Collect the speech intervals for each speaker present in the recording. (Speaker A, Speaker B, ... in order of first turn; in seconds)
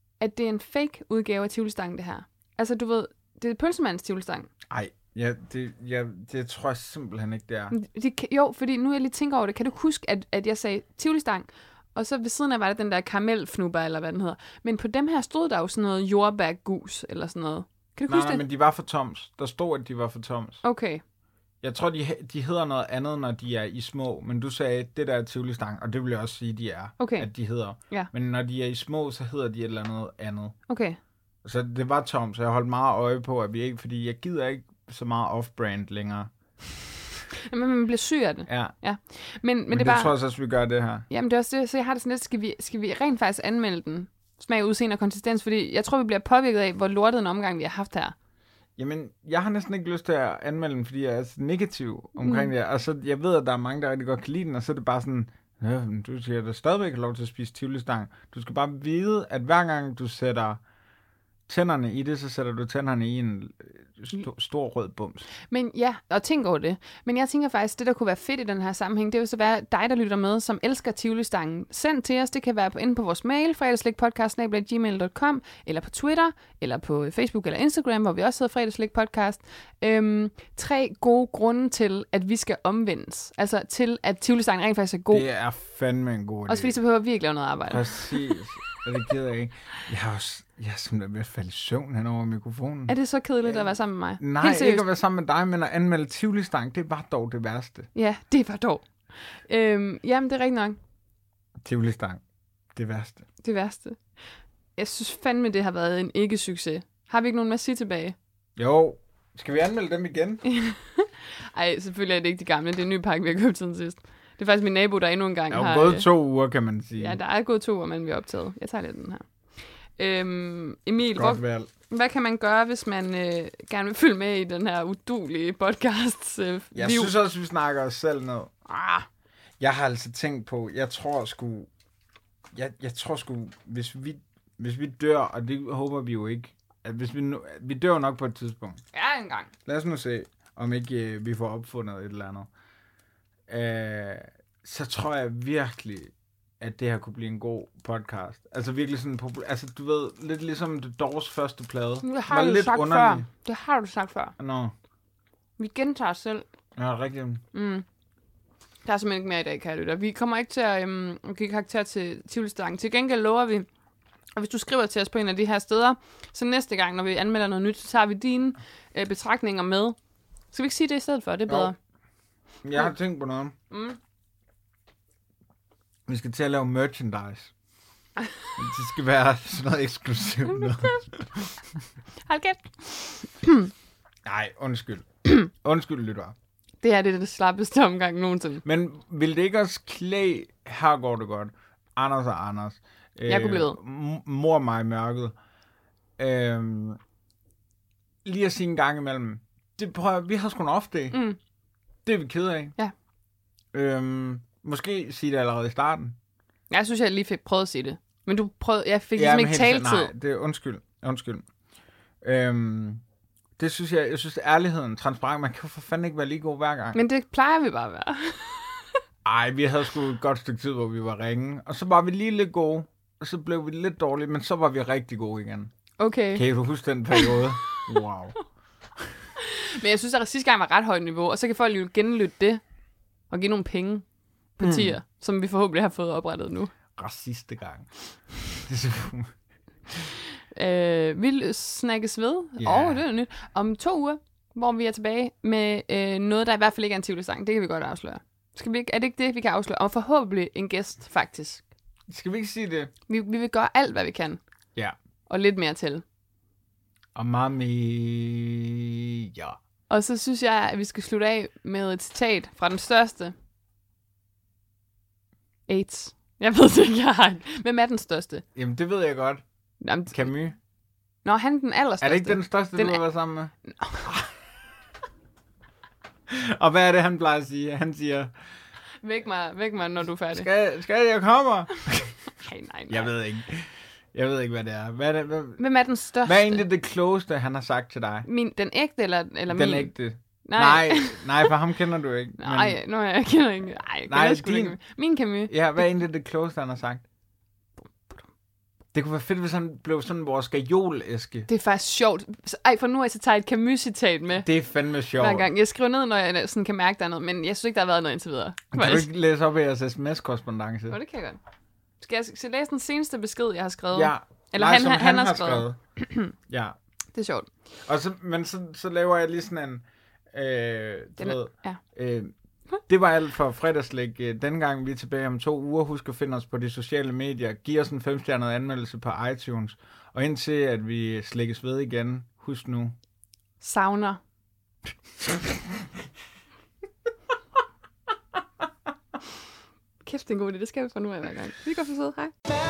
Speaker A: 0.2-4.5, 7.7-18.4, 20.6-21.0, 27.0-27.3, 30.7-31.0, 37.5-40.1, 41.1-48.1, 52.2-52.5, 65.5-85.3, 86.5-88.4, 92.9-94.8, 97.9-100.8, 103.4-104.0, 104.8-108.2, 110.5-116.1, 117.0-119.2, 120.0-127.1, 128.7-129.1, 138.9-139.5, 152.0-154.3, 155.6-156.4, 157.5-157.8, 158.8-163.7, 164.4-169.9, 170.5-171.7, 173.7-174.0, 182.2-183.7, 186.8-188.6, 193.3-193.8, 201.1-201.4, 206.7-210.1, 216.9-218.9, 226.0-226.4, 227.1-227.8, 229.4-232.6, 233.3-234.0, 234.6-236.7, 240.5-251.7, 253.1-254.4, 255.3-256.0, 259.9-263.3, 265.7-268.4, 269.8-270.2, 271.2-273.0, 273.6-274.1, 279.0-280.5, 282.4-283.1, 285.6-286.6, 288.3-291.5, 292.4-295.8, 301.5-304.4, 305.2-309.1, 310.9-311.4, 312.0-316.3, 317.1-317.5, 321.2-321.8, 333.6-334.2, 340.0-342.3
Speaker B: 4.7-7.8, 18.1-20.6, 21.6-30.6, 31.4-36.3, 38.5-38.7, 39.7-41.0, 48.8-60.6, 61.5-65.2, 85.1-86.8, 87.7-93.7, 94.2-97.9, 101.6-102.2, 102.7-103.2, 108.6-110.4, 115.5-117.2, 121.1-121.7, 126.7-128.5, 129.6-131.7, 132.5-138.8, 139.7-142.5, 143.5-153.3, 154.4-154.7, 156.8-157.4, 171.5-171.7, 172.6-173.5, 176.1-177.5, 178.6-181.6, 184.2-186.4, 188.6-195.3, 196.2-197.0, 198.2-201.2, 202.0-202.7, 203.7-206.2, 209.2-211.4, 212.2-213.0, 213.6-217.0, 219.2-225.7, 226.3-228.4, 234.6-234.9, 236.9-237.9, 238.5-239.3, 242.6-243.0, 252.1-252.9, 257.1-259.6, 268.5-269.4, 270.1-270.6, 272.0-273.5, 274.0-274.3, 276.3-278.3, 280.3-282.2, 282.9-285.6, 286.2-288.3, 289.5-292.8, 294.1-294.8, 295.5-297.1, 298.9-301.5, 304.4-305.5, 308.7-311.0, 313.9-315.8, 316.5-316.8, 317.9-322.3, 322.9-332.9